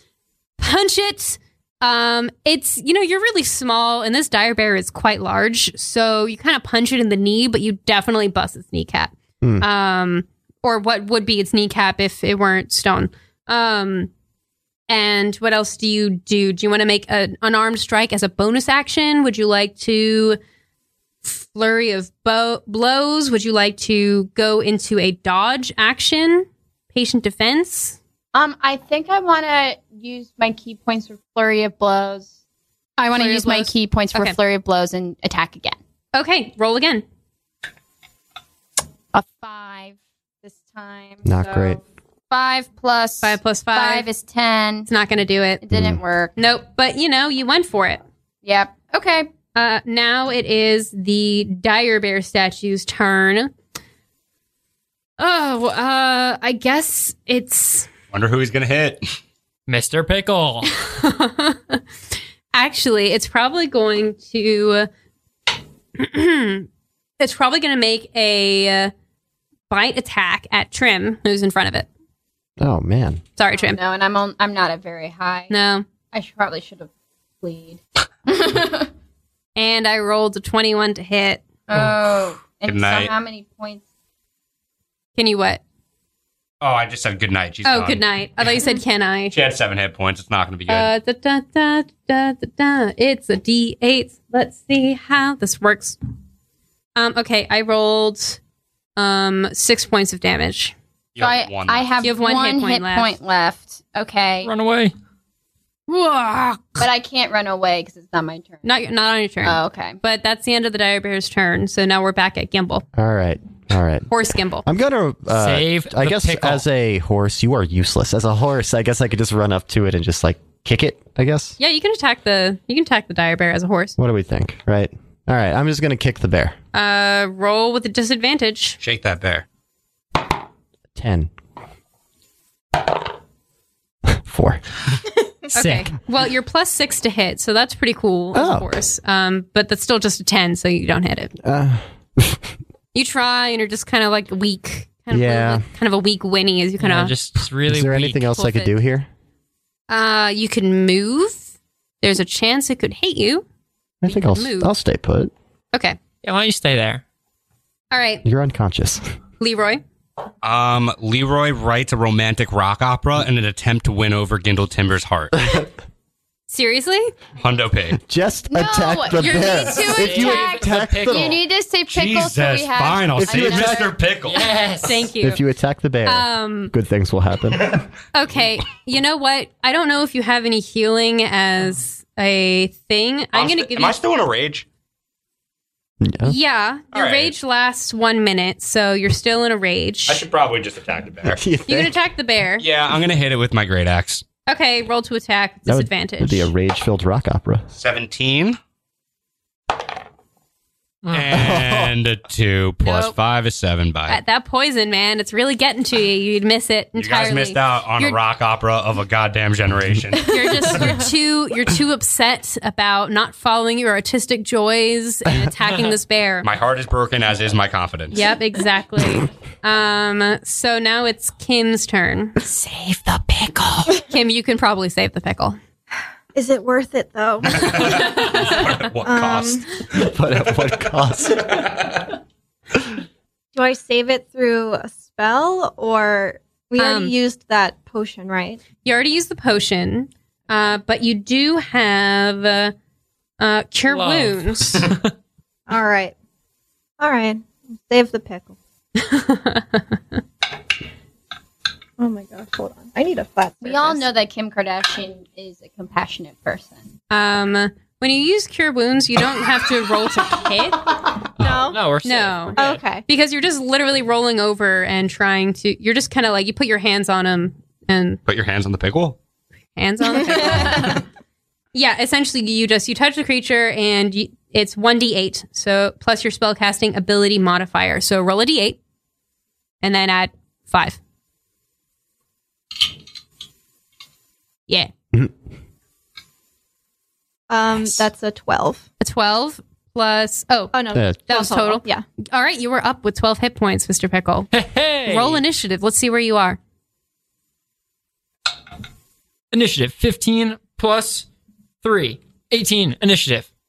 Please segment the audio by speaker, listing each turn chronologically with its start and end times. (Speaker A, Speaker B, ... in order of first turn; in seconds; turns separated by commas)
Speaker A: 0.6-14.1, Speaker A: 14.9-20.4, Speaker A: 21.2-28.0, Speaker B: 28.3-32.3, Speaker B: 33.0-35.8, Speaker A: 33.1-34.4, Speaker A: 36.1-37.0, Speaker B: 39.1-41.8, Speaker C: 41.2-41.8, Speaker B: 42.3-44.9, Speaker A: 43.2-44.1, Speaker A: 44.9-45.6, Speaker B: 45.6-46.3, Speaker C: 45.7-46.0, Speaker A: 46.4-48.0, Speaker B: 48.4-49.3, Speaker A: 49.5-53.5, Speaker A: 55.2-57.9, Speaker D: 58.1-59.0, Speaker E: 59.7-60.7, Speaker A: 60.7-61.8, Speaker A: 62.5-64.9, Speaker A: 65.9-66.7, Speaker A: 67.2-68.9, Speaker A: 69.7-71.9, Speaker C: 72.6-73.2, Speaker A: 73.4-73.8, Speaker B: 73.6-75.5, Speaker A: 75.5-75.8, Speaker B: 76.1-76.9, Speaker B: 77.4-78.9, Speaker A: 79.5-81.4, Speaker B: 81.7-83.8, Speaker D: 82.7-83.1, Speaker A: 85.2-85.6, Speaker D: 86.6-88.0, Speaker A: 87.6-89.3, Speaker D: 89.3-90.9, Speaker A: 90.7-96.0, Speaker A: 97.0-98.4, Speaker A: 99.0-100.7, Speaker D: 101.1-101.9, Speaker B: 101.2-104.5, Speaker A: 102.0-103.1, Speaker E: 104.4-104.9, Speaker A: 105.9-106.9, Speaker B: 106.8-108.6, Speaker A: 108.6-112.8, Speaker B: 109.4-110.0, Speaker C: 112.9-114.1, Speaker A: 114.1-114.7, Speaker C: 114.6-121.5, Speaker E: 115.3-116.6, Speaker A: 121.6-124.0, Speaker C: 124.0-126.5, Speaker A: 126.7-128.8, Speaker D: 128.8-129.4, Speaker C: 130.9-131.3, Speaker C: 134.1-134.6, Speaker A: 135.5-141.3, Speaker E: 135.6-135.9, Speaker C: 138.3-138.7, Speaker C: 141.4-142.5, Speaker A: 142.9-147.1, Speaker C: 145.1-145.6, Speaker E: 146.8-148.3, Speaker C: 147.7-149.1, Speaker A: 148.3-148.7, Speaker A: 149.9-153.4, Speaker C: 154.0-155.3, Speaker A: 154.1-154.7, Speaker A: 155.7-156.0, Speaker E: 156.2-157.0, Speaker A: 157.9-158.2, Speaker C: 158.2-159.0, Speaker A: 159.4-159.8, Speaker D: 160.4-165.6, Speaker A: 166.5-167.1, Speaker D: 167.4-168.0, Speaker C: 167.9-171.4, Speaker B: 168.5-174.0, Speaker A: 169.2-169.8, Speaker E: 169.8-171.4, Speaker D: 171.9-174.5, Speaker C: 173.2-173.9, Speaker E: 174.2-175.1, Speaker A: 174.8-175.4, Speaker C: 175.2-177.8, Speaker A: 176.0-176.7, Speaker A: 178.1-184.0, Speaker D: 183.3-184.7, Speaker C: 186.0-186.3, Speaker A: 186.2-190.2, Speaker D: 186.9-187.3, Speaker D: 190.1-191.4, Speaker C: 191.2-191.9, Speaker A: 191.7-192.6, Speaker D: 192.6-194.2, Speaker A: 194.5-196.5, Speaker C: 195.7-197.6, Speaker D: 197.7-198.6, Speaker E: 201.0-201.5, Speaker D: 201.1-204.2, Speaker C: 201.3-201.9, Speaker A: 202.8-203.1, Speaker A: 204.1-208.2, Speaker D: 206.9-211.0, Speaker A: 210.3-216.5, Speaker D: 216.4-218.2, Speaker A: 218.1-222.5, Speaker E: 222.5-223.9, Speaker A: 223.9-225.6, Speaker F: 226.3-228.1, Speaker D: 227.5-229.7, Speaker F: 229.0-229.7, Speaker C: 229.9-231.7, Speaker F: 233.5-238.6, Speaker A: 236.8-237.1, Speaker A: 238.8-242.7, Speaker A: 243.4-244.9, Speaker E: 243.9-245.1, Speaker F: 245.7-246.1, Speaker F: 247.0-248.5, Speaker A: 249.0-250.0, Speaker F: 252.0-254.1, Speaker B: 253.6-256.8, Speaker A: 257.1-260.9, Speaker F: 261.4-261.8, Speaker E: 261.4-262.8, Speaker A: 262.0-268.2, Speaker F: 262.6-263.0, Speaker D: 268.2-269.2, Speaker A: 269.8-271.0, Speaker F: 270.3-270.8, Speaker A: 271.7-278.8, Speaker A: 279.8-281.0, Speaker F: 287.5-288.8, Speaker A: 289.0-290.7, Speaker F: 290.7-292.0, Speaker C: 290.9-291.2, Speaker A: 291.3-294.5, Speaker E: 294.5-295.4, Speaker A: 295.0-296.6, Speaker E: 299.5-301.2, Speaker E: 301.8-303.5